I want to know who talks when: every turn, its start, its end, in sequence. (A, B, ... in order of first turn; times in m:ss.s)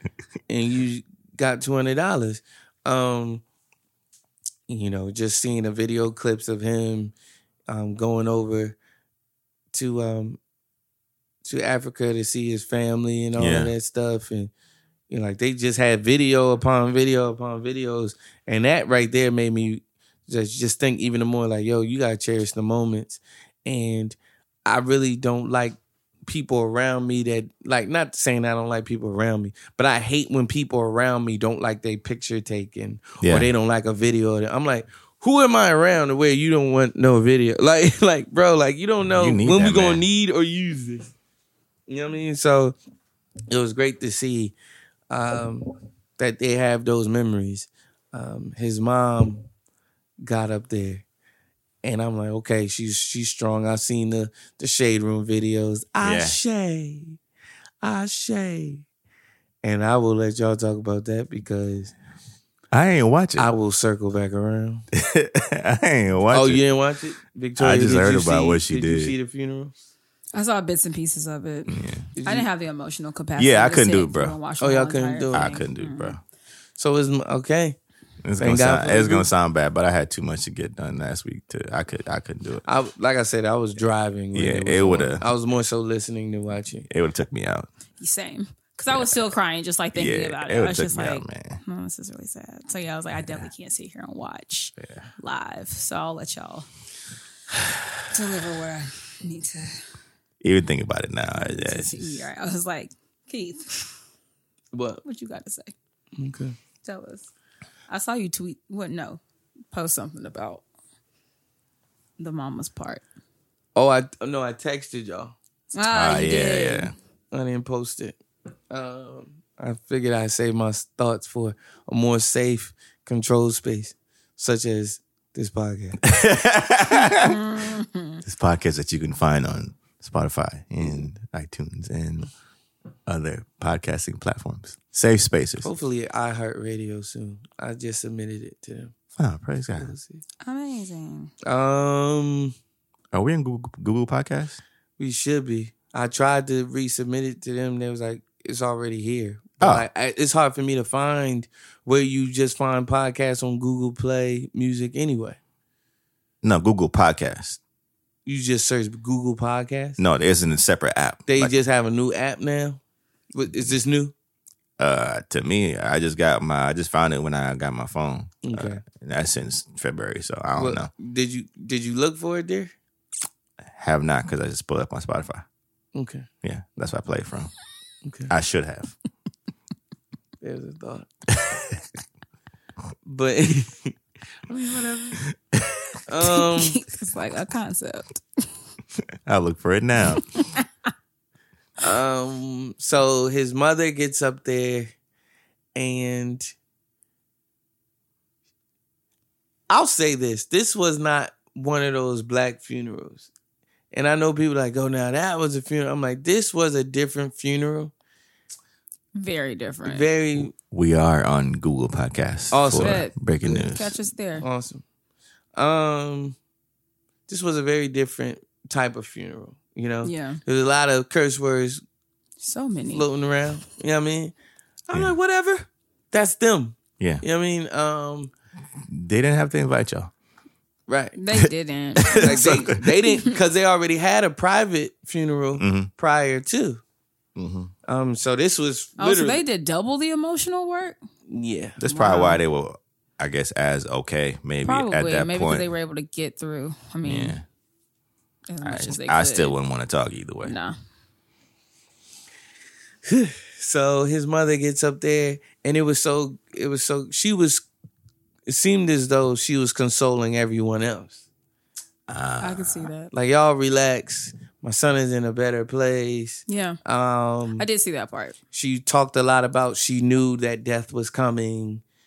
0:00.5-0:03.4 A
0:04.7-0:07.1 A
0:07.7-0:08.8 A
0:09.7-0:10.4 A
0:11.4-0:14.5 A
0:13.4-0:13.7 B
0:15.1-0:41.1 A
0:33.2-0:33.5 B
0:39.2-0:40.0 B
0:41.9-0:42.8 A
0:43.5-0:44.5 A
0:45.1-0:49.4 A
0:50.2-0:51.0 A
0:51.8-0:57.2 A
0:56.0-0:56.4 B
0:57.8-0:58.8 A
0:59.6-1:01.9 A
1:02.7-1:03.5 B
1:03.4-1:04.8 A
1:04.9-1:06.6 B
1:06.3-1:09.7 A
1:07.6-1:09.1 B
1:10.3-1:16.1 C
1:11.7-1:12.0 B
1:12.2-1:12.5 A
1:13.4-1:14.4 B
1:14.6-1:15.6 A
1:15.3-1:16.2 B
1:16.8-1:17.8 A
1:18.2-1:22.6 B
1:18.4-1:19.3 A
1:22.6-1:26.9 A
1:24.3-1:25.2 B
1:26.9-1:27.7 B
1:28.0-1:36.7 C
1:28.9-1:29.3 B
1:29.9-1:31.6 B
1:33.2-1:33.5 B
1:38.1-1:39.8 C
1:40.4-1:42.3 B
1:41.3-1:43.9 C
1:44.7-1:45.0 A
1:45.0-1:45.7 C
1:46.2-1:46.6 A
1:46.8-1:47.3 C
1:47.9-1:50.6 C
1:52.2-1:53.0 C
1:53.7-1:55.4 A
1:55.7-1:56.9 C
1:55.9-1:56.9 B
1:57.3-1:58.2 A
1:58.7-2:06.0 A
2:06.0-2:07.5 B
2:06.9-2:08.2 C
2:08.2-2:12.3 B
2:13.1-2:15.7 B
2:15.6-2:18.9 A
2:19.2-2:19.9 B
2:19.8-2:20.2 A
2:20.4-2:21.3 C
2:21.4-2:22.5 A
2:23.1-2:24.6 B
2:25.0-2:35.4 A
2:29.6-2:29.8 B
2:36.4-2:37.6 B
2:38.2-2:40.0 A
2:40.0-2:41.5 B
2:41.3-2:42.8 A
2:43.3-2:44.1 A
2:44.8-2:50.9 B
2:48.4-2:48.8 A
2:50.6-2:52.7 A
2:53.7-2:55.4 B
2:55.9-2:56.3 A
2:56.4-2:57.5 B
2:58.0-2:58.3 A
2:58.3-2:58.9 B
3:00.4-3:01.1 A
3:03.0-3:03.9 A
3:04.5-3:05.2 A
3:06.1-3:06.8 A
3:06.2-3:08.2 C
3:09.2-3:10.2 B
3:10.1-3:10.6 C
3:11.8-3:14.9 A
3:15.7-3:16.5 A
3:19.7-3:23.3 A
3:23.9-3:27.9 A
3:29.1-3:30.1 C
3:29.8-3:30.5 A
3:30.4-3:33.9 B
3:32.5-3:33.7 A
3:32.7-3:34.4 C
3:34.4-3:34.8 A
3:35.5-3:36.4 A
3:37.3-3:41.8 A
3:40.0-3:40.4 C
3:42.4-3:43.0 C
3:42.9-3:44.3 A
3:44.9-3:48.3 A
3:47.0-3:47.2 B
3:48.9-3:50.1 B
3:50.9-3:51.1 A
3:51.1-3:53.3 C
3:51.3-3:52.7 B
3:52.1-3:56.8 A
3:55.6-3:55.9 B
3:57.4-3:57.7 B
3:57.9-3:59.4 A
3:59.0-4:01.0 C
4:01.3-4:01.8 A
4:01.8-4:05.7 B
4:01.8-4:02.4 C
4:04.6-4:07.4 C
4:07.0-4:07.4 B
4:08.5-4:09.5 C
4:08.6-4:10.5 B
4:10.4-4:10.8 C
4:13.1-4:17.6 A
4:18.5-4:21.2 A
4:22.1-4:22.9 B
4:22.4-4:23.1 C
4:23.1-4:27.6 A
4:26.5-4:26.8 C
4:27.6-4:28.4 C
4:28.5-4:31.8 A